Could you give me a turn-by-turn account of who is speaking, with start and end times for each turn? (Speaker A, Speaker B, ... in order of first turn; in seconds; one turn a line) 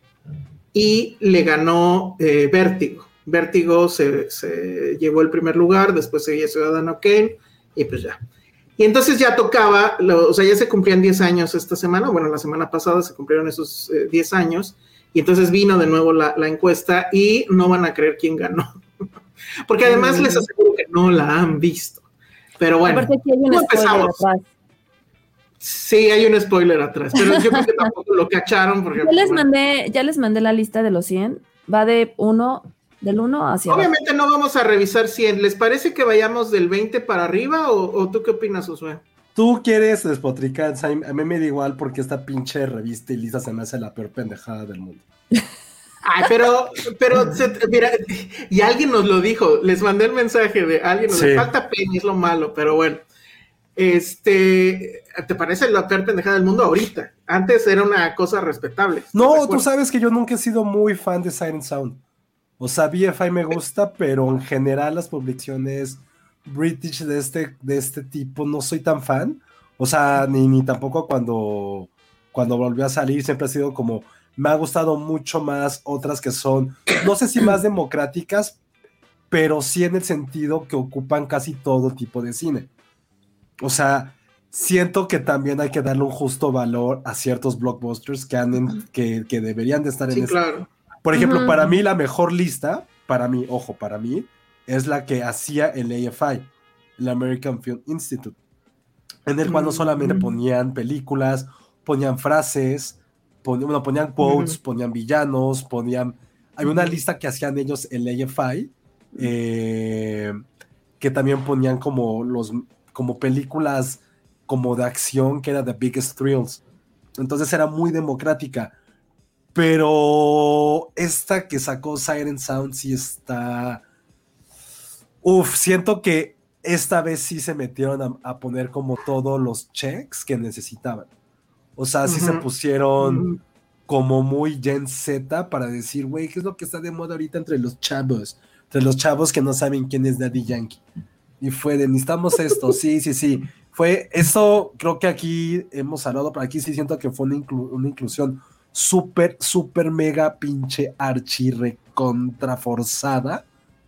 Speaker A: 0.7-8.2
Speaker A: 8.8-18.7
Speaker A: 19.7-22.0
Speaker B: 19.8-20.5
Speaker A: 22.6-24.2
Speaker B: 22.8-24.4
Speaker A: 25.6-29.4
Speaker B: 27.2-27.9
Speaker B: 29.0-33.9
Speaker A: 33.7-39.0
Speaker C: 39.3-45.0
Speaker A: 46.0-53.0
Speaker C: 51.1-51.5
Speaker A: 53.8-59.6
Speaker C: 59.1-62.0
Speaker C: 62.6-78.6
Speaker C: 79.3-82.7
Speaker C: 83.6-90.4
Speaker A: 90.1-90.7
Speaker C: 91.0-98.4
Speaker B: 91.2-91.7
Speaker C: 99.2-110.4
Speaker A: 99.4-100.3
Speaker A: 104.2-104.6
Speaker A: 106.6-107.0
Speaker C: 111.0-116.6
Speaker C: 117.2-118.8
Speaker C: 119.5-123.8
Speaker C: 125.2-131.1
Speaker C: 131.8-133.3
Speaker A: 132.1-132.4
Speaker A: 133.0-133.4
Speaker C: 133.9-140.8
Speaker C: 141.4-153.4